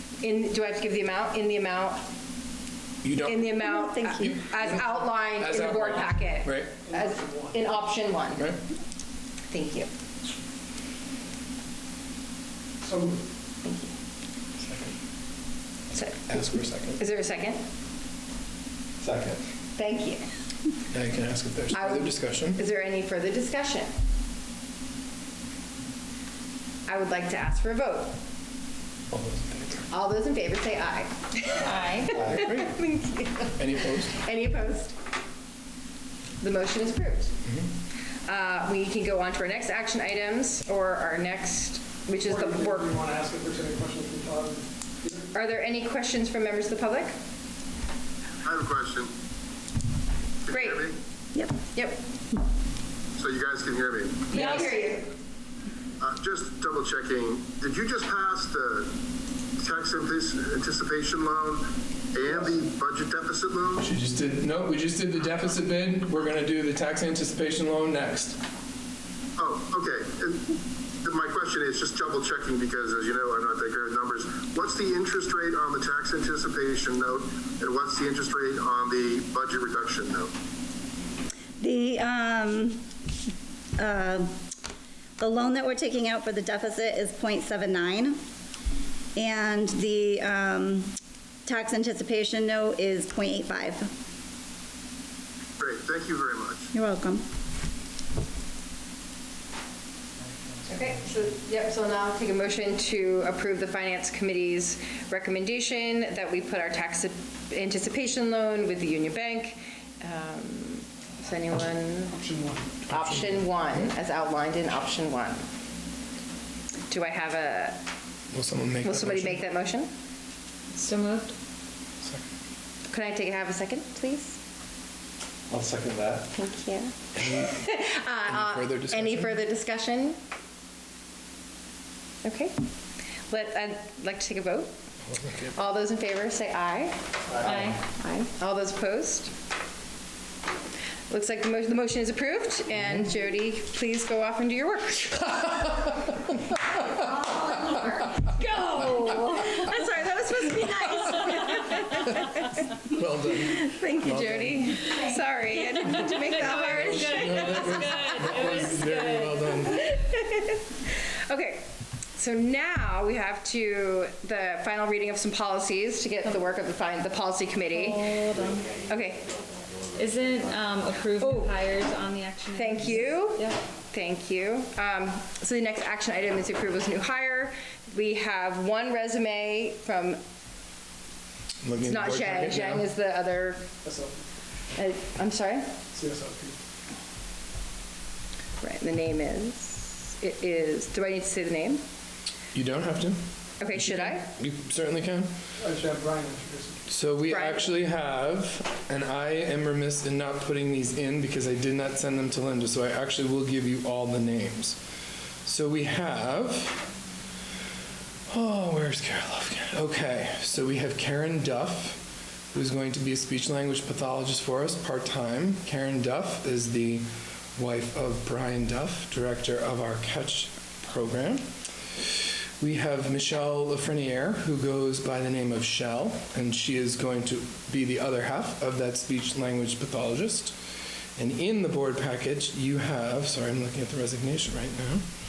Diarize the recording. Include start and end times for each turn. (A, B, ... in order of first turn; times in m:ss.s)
0:00.2-0:02.0 A
0:03.0-0:03.5 B
0:03.2-0:08.4 A
0:03.6-0:04.3 C
0:04.5-0:06.8 B
0:06.8-0:07.6 D
0:09.5-0:09.9 A
0:12.8-0:13.2 D
0:13.6-0:13.9 A
0:14.6-0:15.0 B
0:15.9-0:17.0 B
0:17.0-0:17.6 A
0:19.0-0:19.4 B
0:19.8-0:20.2 A
0:20.9-0:22.6 B
0:21.7-0:23.9 A
0:26.8-0:28.2 A
0:29.1-0:29.8 B
0:29.9-0:35.0 A
0:31.6-0:32.2 E
0:32.1-0:32.8 B
0:33.6-0:34.2 B
0:36.4-0:37.3 A
0:38.2-0:42.9 A
0:42.2-0:45.2 D
0:45.3-0:47.2 A
0:48.4-0:49.1 F
0:50.4-0:51.0 F
0:50.5-0:50.9 A
0:51.7-0:52.0 A
0:53.2-0:54.3 F
0:54.3-0:54.7 B
0:54.3-0:55.1 A
0:56.0-0:58.9 F
0:59.6-1:03.8 F
1:03.8-1:08.4 B
1:09.4-1:20.3 F
1:21.6-1:22.8 C
1:23.8-1:24.3 C
1:25.2-1:28.2 C
1:29.2-1:30.9 C
1:31.4-1:33.9 C
1:35.6-1:36.7 F
1:36.7-1:37.2 C
1:40.7-1:52.2 A
1:52.1-1:52.8 D
1:52.9-1:55.4 A
1:52.9-1:53.9 B
1:56.9-1:57.8 A
1:58.3-1:59.4 B
1:58.8-1:59.9 A
2:00.7-2:01.3 E
2:02.9-2:04.4 A
2:05.5-2:06.3 B
2:06.3-2:10.2 A
2:07.2-2:07.5 B
2:08.2-2:09.3 B
2:12.2-2:12.5 A
2:13.3-2:14.7 A
2:15.1-2:15.5 B
2:15.5-2:17.0 A
2:17.4-2:18.3 E
2:18.3-2:19.3 A
2:21.1-2:25.4 A
2:27.0-2:32.7 A
2:32.9-2:34.7 B
2:33.4-2:38.6 A
2:36.3-2:39.4 E
2:36.7-2:39.8 B
2:39.5-2:48.0 A
2:47.7-2:48.7 E
2:48.9-2:49.3 A
2:49.9-2:53.6 E
2:51.2-2:51.5 A
2:52.5-3:00.2 A
3:01.6-3:02.9 B
3:01.8-3:03.6 A
3:03.8-3:04.2 D
3:04.8-3:05.7 A
3:05.9-3:06.6 D
3:08.6-3:11.8 A
3:12.5-3:13.2 B
3:13.6-3:14.3 A
3:13.7-3:15.3 B
3:15.6-3:16.8 D
3:16.9-3:24.8 B
3:17.3-3:17.7 A
3:25.4-3:26.8 B
3:28.3-3:32.0 B
3:32.5-3:41.4 B
3:42.6-3:50.5 B
3:51.2-3:55.0 B